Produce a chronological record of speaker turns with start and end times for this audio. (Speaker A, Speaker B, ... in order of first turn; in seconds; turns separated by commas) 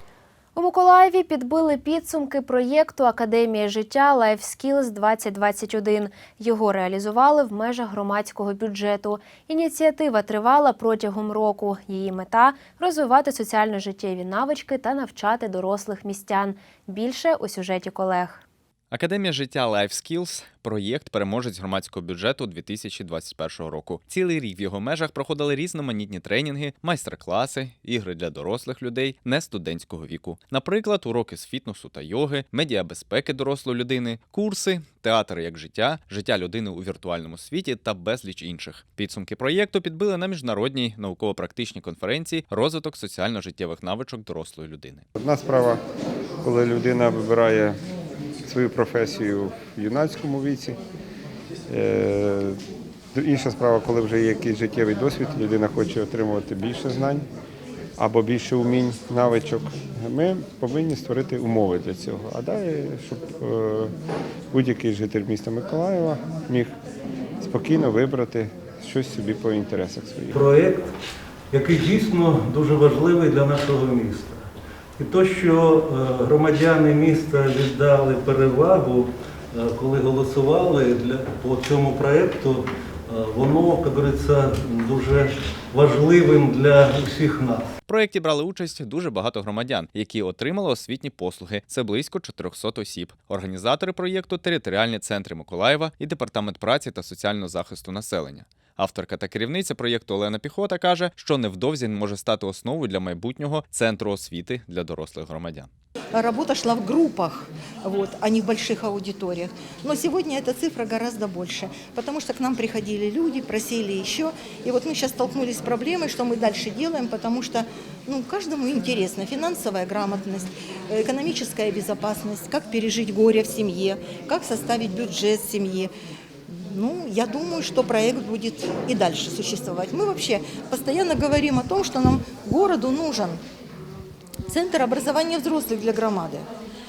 Speaker A: 0.6-18.4, Speaker B: 18.9-45.1, Speaker C: 45.2-45.8, Speaker C: 46.4-47.8, Speaker C: 48.5-50.8, Speaker C: 51.7-52.6, Speaker C: 53.1-57.3, Speaker C: 58.0-63.9, Speaker C: 64.5-66.7, Speaker C: 67.4-70.4, Speaker D: 70.3-70.9, Speaker D: 71.5-74.5, Speaker D: 75.0-87.7, Speaker B: 87.9-105.7, Speaker E: 106.1-125.9, Speaker E: 126.5-133.4, Speaker E: 134.5-136.5